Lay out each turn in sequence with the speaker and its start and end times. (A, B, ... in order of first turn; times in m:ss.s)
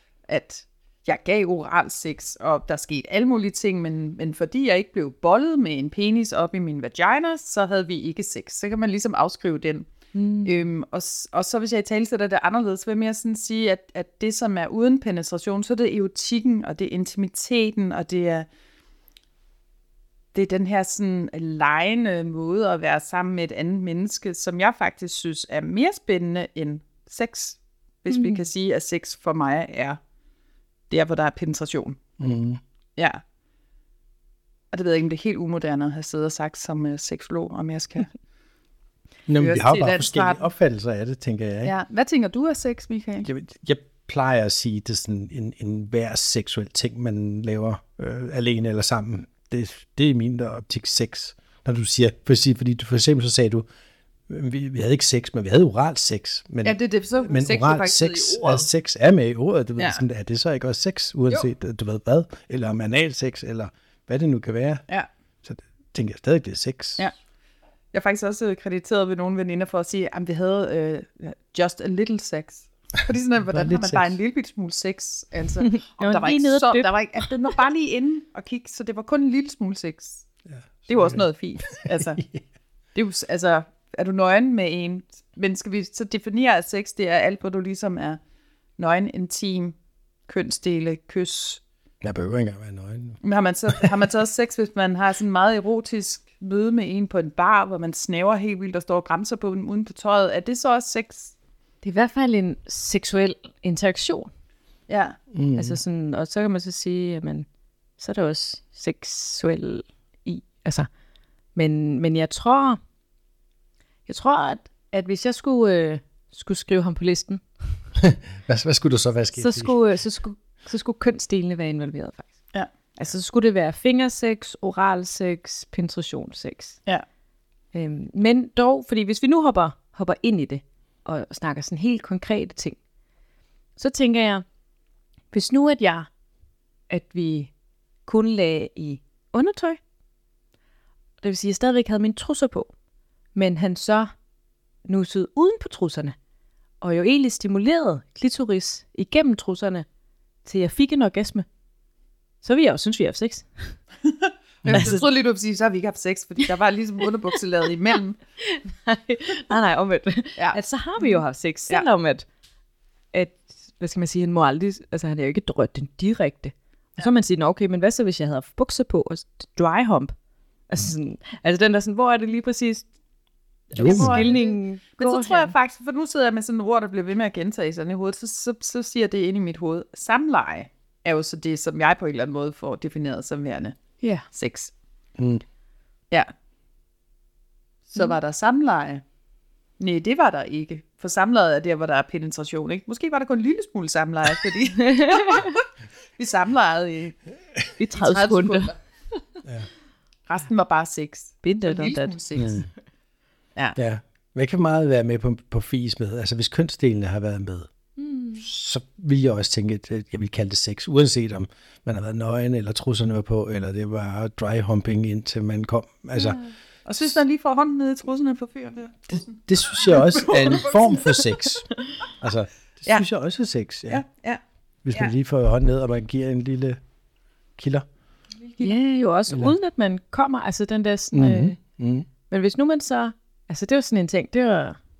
0:00.3-0:09.9 A
0:10.1-0:10.6 B
0:10.4-0:18.5 A
0:20.3-0:30.0 A
0:28.1-0:28.4 B
0:30.9-0:32.0 A
0:32.2-0:32.6 C
0:33.0-0:33.2 A
0:34.7-0:38.1 A
0:39.3-0:41.7 C
0:39.4-0:40.5 A
0:41.6-0:43.3 A
0:43.2-0:53.6 C
0:54.3-1:04.8 C
0:56.6-0:58.7 A
0:59.8-1:00.0 A
1:05.4-1:07.0 C
1:07.9-1:20.3 A
1:13.5-1:14.2 C
1:15.6-1:17.3 B
1:20.5-1:21.2 C
1:20.9-1:22.3 A
1:21.8-1:22.4 C
1:22.9-1:28.2 A
1:28.8-1:29.8 A
1:30.3-1:31.6 A
1:32.0-1:33.9 C
1:33.2-1:41.3 A
1:41.8-1:44.3 B
1:44.9-1:45.2 A
1:45.3-1:45.8 C
1:45.6-1:47.5 B
1:48.0-1:50.9 B
1:51.5-1:52.8 B
1:54.1-1:57.8 B
1:58.0-1:59.8 C
1:59.4-2:02.4 B
2:03.0-2:06.8 B
2:07.7-2:12.8 B
2:13.8-2:14.4 B
2:15.3-2:16.1 B
2:16.9-2:17.5 B
2:18.0-2:19.8 B
2:21.2-2:22.7 B
2:23.3-2:24.1 B
2:24.8-2:26.1 B
2:26.8-2:29.8 B
2:30.4-2:31.4 B
2:32.4-2:33.8 B
2:34.0-2:38.2 A
2:34.6-2:35.0 C
2:34.7-2:35.0 B
2:38.4-2:42.2 B
2:40.4-2:41.8 A
2:43.1-2:50.1 B
2:50.7-2:52.9 B
2:53.7-3:03.8 A
2:53.7-2:55.5 B
2:53.8-2:54.2 C
3:04.3-3:04.7 A
3:05.2-3:05.4 C
3:07.9-3:09.0 A
3:09.8-3:15.6 A
3:14.8-3:15.5 B
3:16.2-3:17.2 A
3:17.8-3:18.7 B
3:17.9-3:18.8 A
3:20.3-3:22.7 A
3:21.4-3:22.1 B
3:22.4-3:22.7 C
3:23.8-3:27.7 C
3:28.0-3:28.4 B
3:28.4-3:36.4 C
3:36.2-3:36.5 B
3:36.9-3:41.2 A
3:39.1-3:44.0 C
3:43.9-3:44.4 A
3:44.8-3:46.8 C
3:47.6-3:47.9 C
3:48.4-3:48.7 A
3:48.6-3:51.6 B
3:51.1-3:52.1 C
3:52.3-3:54.8 B